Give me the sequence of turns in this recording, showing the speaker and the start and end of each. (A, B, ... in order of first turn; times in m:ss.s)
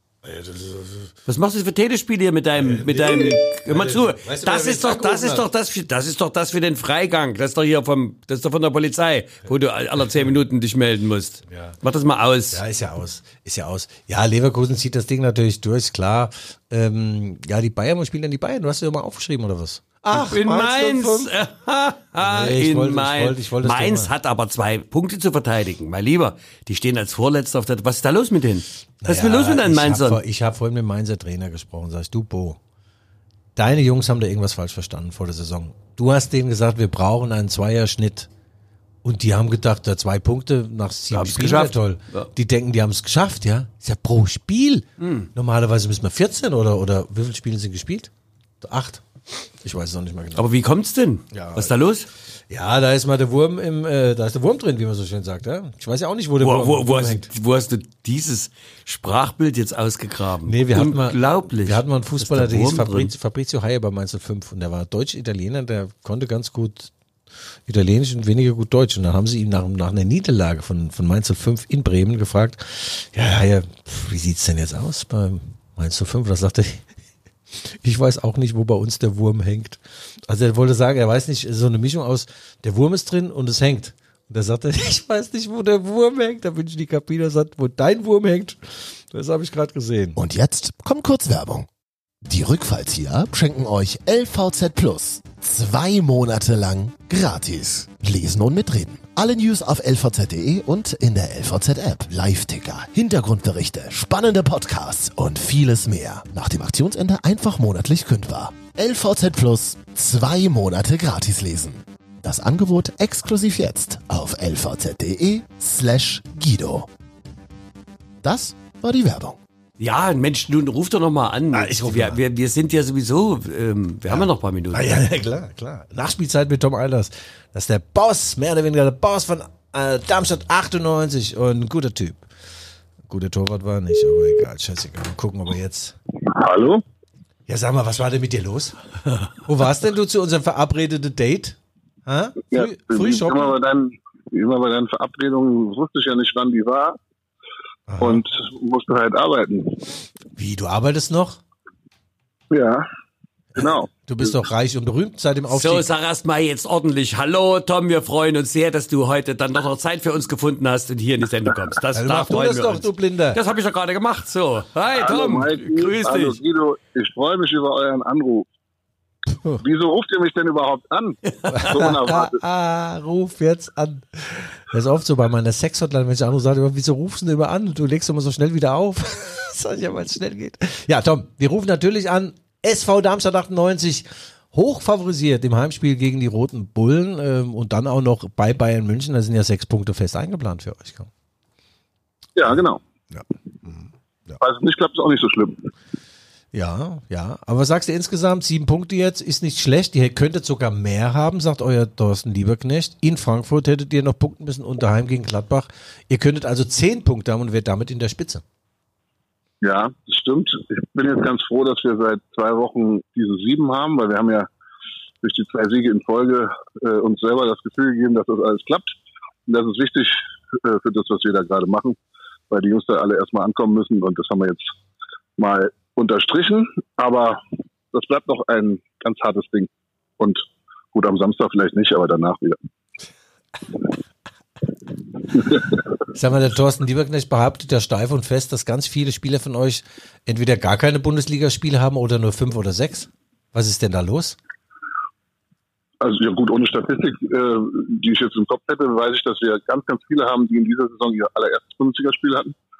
0:00.2-0:01.1 A
0:01.3-0:12.6 B
0:02.6-0:05.4 A
0:11.5-0:11.8 A
0:12.5-0:21.3 A
0:20.1-0:30.2 B
0:22.2-0:24.1 A
0:29.0-0:32.6 A
0:33.6-0:38.3 A
0:39.0-0:49.0 A
0:41.1-0:42.3 B
0:45.0-0:45.3 B
0:49.6-0:50.5 A
0:50.4-0:52.1 B
0:51.3-0:51.7 A
0:52.5-0:57.3 A
0:56.4-1:03.1 B
1:00.4-1:06.9 A
1:07.7-1:16.8 A
1:17.6-1:30.2 A
1:30.2-1:31.7 C
1:32.2-1:56.9 C
1:58.2-1:59.4 C
1:59.8-2:05.0 B
2:01.5-2:02.2 A
2:04.1-2:12.3 A
2:13.1-2:16.0 A
2:16.3-2:16.8 D
2:17.5-2:18.8 A
2:19.4-2:23.6 A
2:22.5-2:27.0 D
2:27.9-2:28.2 A
2:28.0-2:30.0 D
2:30.4-2:31.4 A
2:32.5-2:32.9 D
2:33.6-2:35.9 A
2:33.6-2:33.9 D
2:35.5-2:46.4 B
2:42.0-2:43.4 A
2:44.9-2:48.5 D
2:49.6-2:52.4 D
2:51.4-2:51.7 B
2:51.5-3:11.1 A
3:12.4-3:12.8 D
3:13.1-3:14.4 A
3:14.4-3:15.7 D
3:16.5-3:28.4 A
3:29.6-3:34.5 D
3:35.2-3:39.0 D
3:39.5-3:42.0 D
3:42.5-3:44.7 D
3:45.4-3:47.4 D
3:47.9-3:52.6 D
3:55.3-3:55.6 D
3:56.1-4:04.4 A
4:06.0-4:12.6 D